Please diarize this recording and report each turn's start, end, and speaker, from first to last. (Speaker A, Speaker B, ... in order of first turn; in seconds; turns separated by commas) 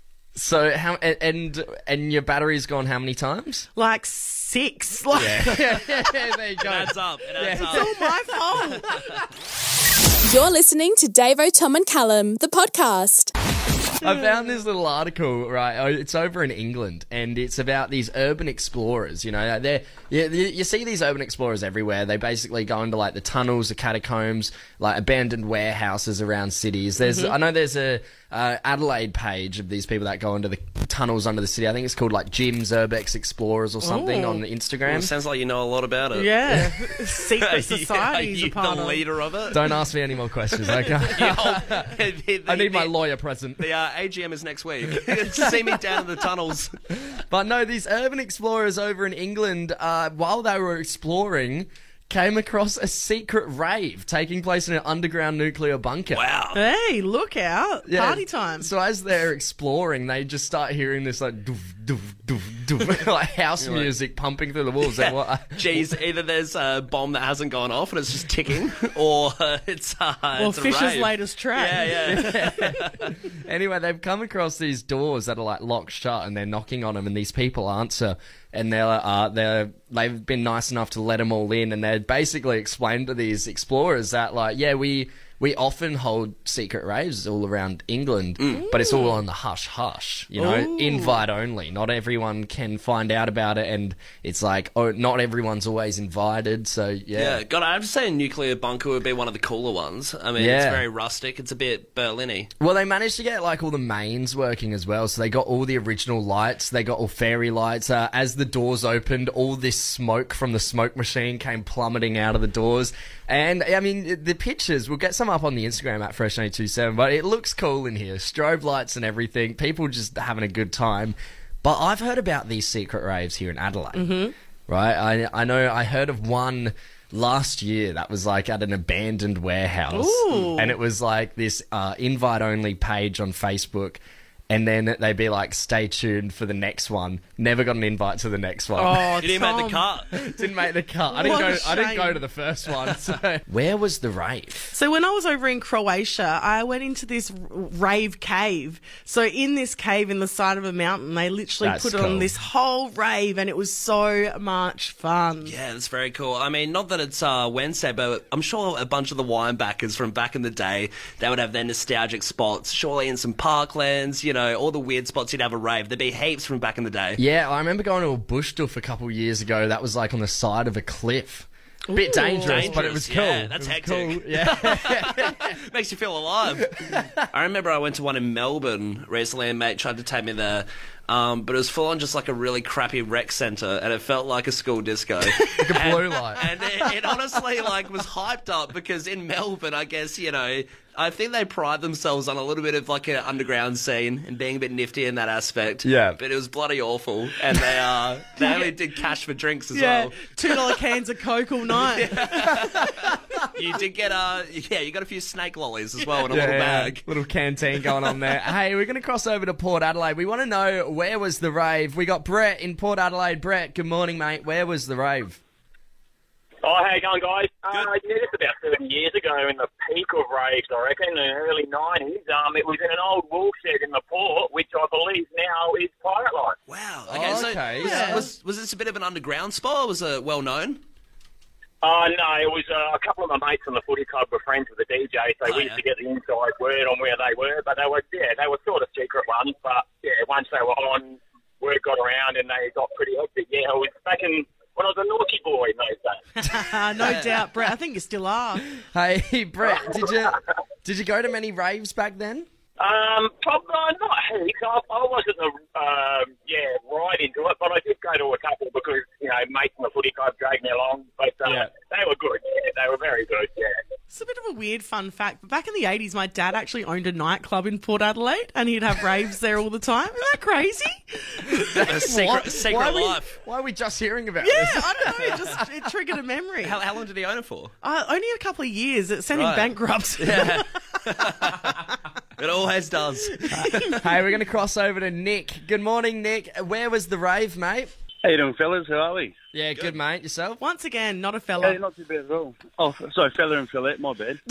Speaker A: 0.3-3.6, Speaker B: 3.8-5.6, Speaker A: 5.2-8.0, Speaker C: 6.6-7.9, Speaker B: 7.5-8.8, Speaker D: 10.3-13.3, Speaker A: 14.0-35.1, Speaker B: 14.0-14.5, Speaker B: 27.0-27.3, Speaker B: 33.8-34.4, Speaker C: 34.9-39.6, Speaker B: 36.1-39.0, Speaker A: 39.5-41.9, Speaker C: 41.1-42.9, Speaker A: 42.5-43.6, Speaker C: 43.6-46.8, Speaker A: 45.0-45.6, Speaker A: 47.1-56.2, Speaker C: 56.1-56.6, Speaker B: 56.5-58.7, Speaker A: 57.9-65.9, Speaker C: 63.6-63.9, Speaker C: 64.8-73.1, Speaker B: 70.4-72.7, Speaker A: 72.0-97.4, Speaker C: 88.4-88.6, Speaker B: 88.5-89.2, Speaker B: 90.4-91.2, Speaker C: 97.1-102.5, Speaker A: 100.4-100.8, Speaker A: 102.6-124.1, Speaker B: 123.9-124.3, Speaker A: 124.7-139.1, Speaker B: 129.9-130.7, Speaker B: 138.8-139.8, Speaker C: 139.2-140.1, Speaker A: 140.1-144.7, Speaker B: 141.1-142.2, Speaker B: 144.7-155.5, Speaker A: 151.6-152.3, Speaker C: 155.4-167.2, Speaker A: 167.2-175.5, Speaker B: 171.8-172.8, Speaker C: 172.4-200.5, Speaker A: 176.6-177.2, Speaker A: 185.6-186.5, Speaker A: 195.8-196.2, Speaker B: 198.4-198.7, Speaker B: 199.7-202.6, Speaker C: 201.9-207.1, Speaker A: 202.5-203.1, Speaker A: 206.3-215.4, Speaker E: 216.6-226.6, Speaker C: 226.7-230.8, Speaker A: 227.1-228.2, Speaker B: 227.8-228.3, Speaker E: 231.8-246.2, Speaker C: 235.4-235.8, Speaker B: 246.4-248.7, Speaker C: 247.0-247.3, Speaker A: 248.9-252.5, Speaker E: 252.8-263.8, Speaker A: 261.4-261.7, Speaker B: 264.1-271.7, Speaker C: 271.7-273.4, Speaker A: 271.8-275.6, Speaker B: 274.4-276.8, Speaker C: 276.6-277.7, Speaker B: 277.8-281.0, Speaker C: 279.3-281.9, Speaker C: 282.4-284.1, Speaker B: 283.5-283.9, Speaker A: 283.9-287.9, Speaker F: 288.2-289.3, Speaker A: 289.5-290.6, Speaker B: 290.6-291.8, Speaker F: 291.6-294.4